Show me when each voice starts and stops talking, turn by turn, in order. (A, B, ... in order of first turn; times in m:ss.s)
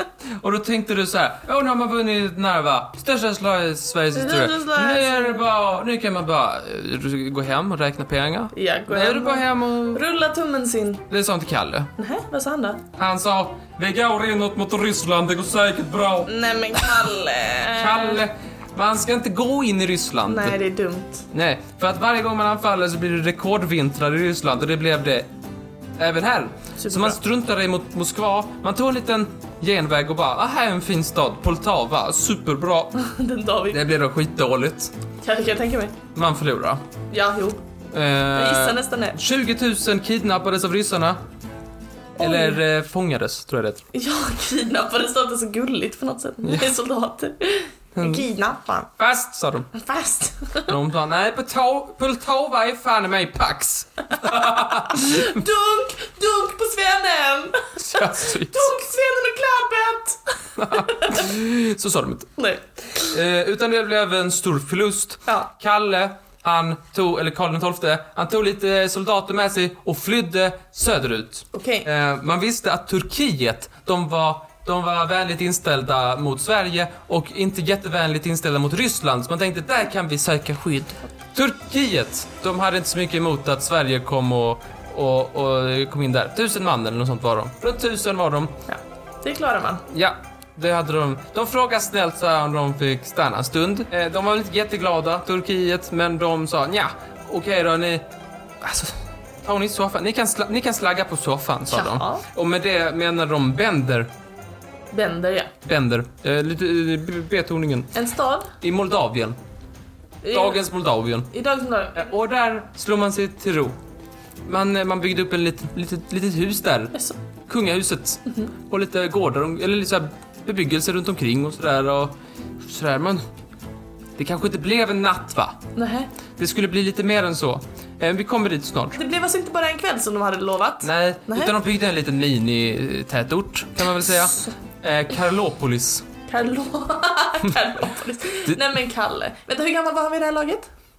0:00.4-0:10.0 A
0:04.1-0:05.4 B
0:08.5-0:11.0 B
0:11.1-0:11.9 A
0:12.0-0:12.8 B
0:13.0-0:16.3 A
0:16.3-0:18.2 B
0:17.7-0:20.6 A
0:20.3-0:21.3 B
0:21.3-0:25.3 A
0:26.0-0:32.9 A
0:26.8-0:27.2 B
0:33.0-0:33.8 B
0:33.7-0:34.9 A
0:35.2-0:36.0 B
0:36.2-0:36.8 A
0:37.1-0:37.6 B
0:37.9-0:41.2 A
0:38.3-0:39.2 B
0:42.2-0:43.8 A
0:42.2-0:42.6 B
0:43.9-0:48.9 B
0:48.0-0:48.2 A
0:49.0-0:49.7 A
0:49.7-0:50.7 B
0:50.7-0:55.4 A
0:54.4-1:01.2 B
0:57.8-0:58.8 A
1:00.6-1:02.3 A
1:02.4-1:03.1 B
1:03.0-1:28.5 A
1:11.5-1:11.9 B
1:28.7-1:29.8 B
1:29.9-1:38.0 A
1:38.6-1:44.1 A
1:41.7-1:42.2 B
1:44.9-1:45.5 B
1:45.6-1:47.9 A
1:48.0-1:48.5 B
1:48.6-1:49.4 A
1:50.2-1:50.6 B
1:50.3-1:51.3 A
1:51.3-1:52.1 B
1:51.9-1:53.8 A
1:54.5-1:57.0 A
1:57.5-2:03.2 A
2:04.2-2:05.6 A
2:05.8-2:06.1 B
2:06.4-2:09.0 A
2:09.0-2:11.5 B
2:10.8-2:16.1 A
2:16.3-2:20.7 B